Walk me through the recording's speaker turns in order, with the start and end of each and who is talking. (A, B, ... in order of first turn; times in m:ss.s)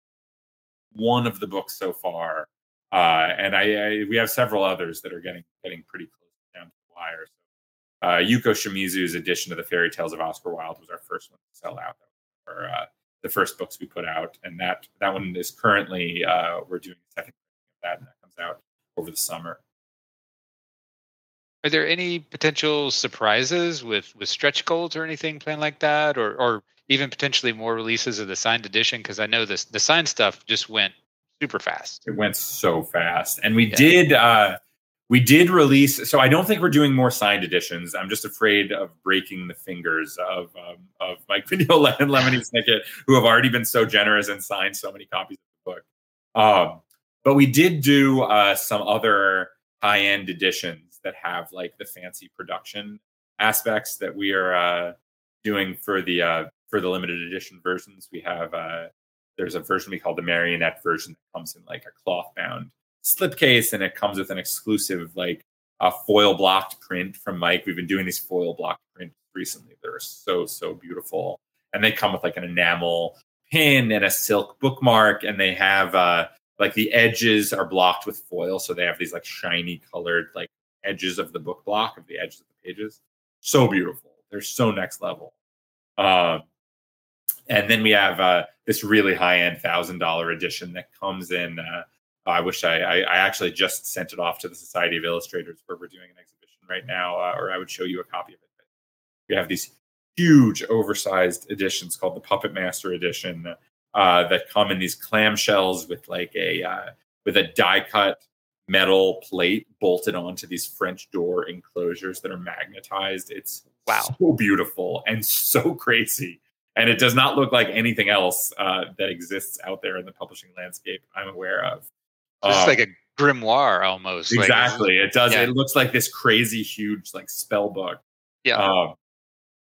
0:00.9-0:07.3 A
0:08.0-0:19.6 A
0:21.6-0:32.0 B
0:32.0-0:34.6 A
0:35.1-0:45.8 A
0:46.4-1:25.3 A
1:26.0-1:26.5 A
1:27.5-1:38.5 A
1:39.3-2:01.8 A
1:53.9-1:54.1 B
2:02.4-2:02.8 A
2:02.4-2:05.5 B
2:04.3-2:08.0 A
2:08.5-2:09.0 A